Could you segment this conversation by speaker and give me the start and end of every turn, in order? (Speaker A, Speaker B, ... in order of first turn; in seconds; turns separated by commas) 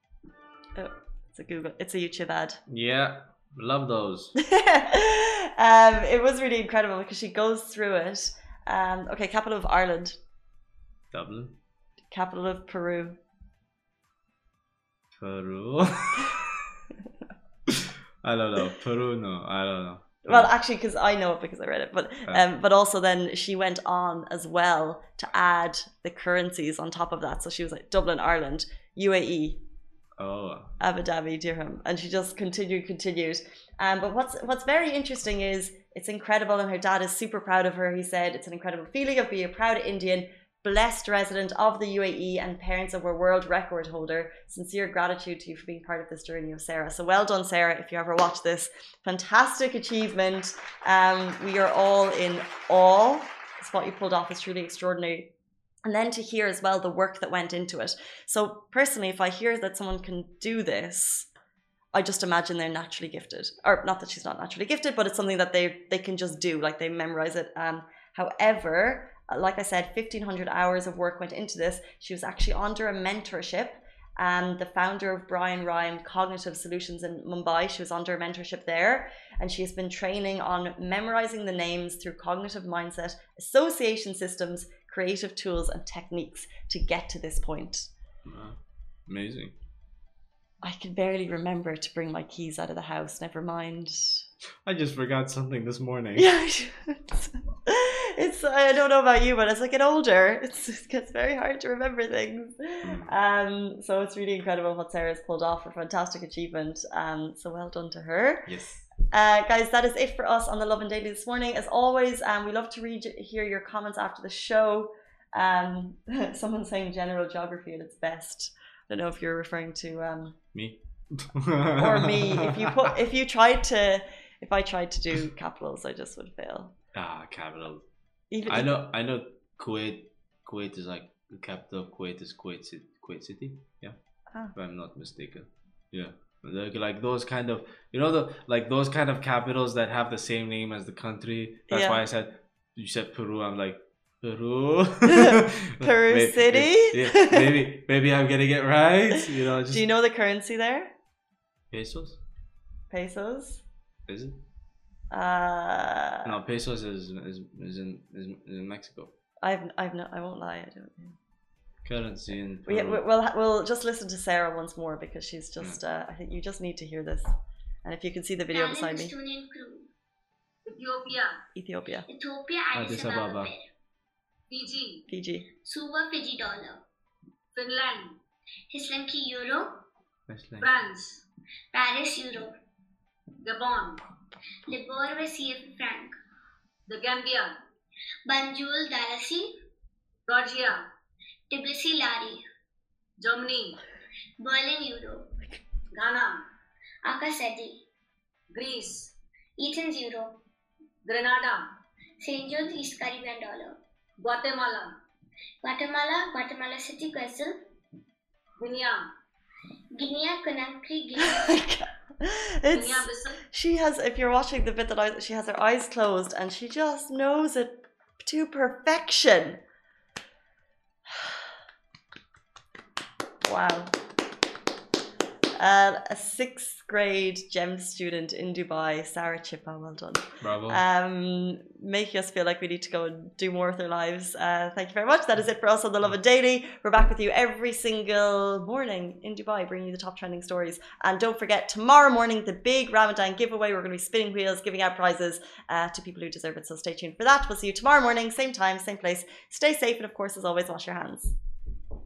Speaker A: 0.8-2.6, Speaker B: 2.7-4.3, Speaker A: 4.4-10.2, Speaker B: 11.1-11.6, Speaker A: 12.1-13.2, Speaker B: 15.2-16.6, Speaker B: 17.7-20.5, Speaker A: 20.3-29.6, Speaker B: 30.2-30.8, Speaker A: 30.8-55.3, Speaker A: 55.9-61.3, Speaker A: 61.9-87.9, Speaker B: 88.2-89.5, Speaker A: 90.6-94.2, Speaker B: 94.7-96.3, Speaker A: 96.2-108.5, Speaker B: 102.8-103.2, Speaker B: 108.5-108.9, Speaker A: 109.1-120.4, Speaker B: 120.5-122.8, Speaker A: 121.8-126.7, Speaker B: 126.9-127.9, Speaker A: 128.3-128.7, Speaker B: 128.4-134.0, Speaker B: 134.5-149.8, Speaker A: 141.7-142.0, Speaker A: 145.1-147.4, Speaker A: 149.1-150.9, Speaker B: 151.7-152.2, Speaker A: 152.9-153.6, Speaker B: 154.1-154.4, Speaker A: 155.1-156.3, Speaker B: 156.2-159.1, Speaker A: 159.4-161.2, Speaker B: 161.8-163.0, Speaker A: 162.7-167.3, Speaker A: 167.8-169.1, Speaker C: 168.5-169.9, Speaker D: 170.7-171.4, Speaker A: 171.6-172.1, Speaker C: 172.1-173.7, Speaker B: 172.7-173.5, Speaker D: 174.5-175.1, Speaker A: 175.1-175.5, Speaker C: 175.6-176.8, Speaker D: 177.6-178.2, Speaker C: 178.7-179.8, Speaker B: 180.3-180.7, Speaker D: 180.6-181.2, Speaker C: 181.7-182.6, Speaker D: 183.4-184.1, Speaker C: 184.7-186.2, Speaker D: 186.9-187.6, Speaker C: 188.3-189.6, Speaker D: 190.3-190.8, Speaker C: 191.5-192.4, Speaker D: 193.2-193.8, Speaker C: 194.4-195.3, Speaker D: 195.9-196.5, Speaker C: 197.1-197.8, Speaker D: 198.5-199.1, Speaker C: 199.6-200.4, Speaker D: 201.1-201.8, Speaker C: 202.2-203.8, Speaker D: 204.2-205.0, Speaker C: 205.6-207.6, Speaker D: 208.6-209.1, Speaker C: 209.9-211.6, Speaker A: 211.2-219.6, Speaker D: 212.7-213.4, Speaker A: 223.4-223.9, Speaker A: 225.6-251.4, Speaker B: 230.4-230.8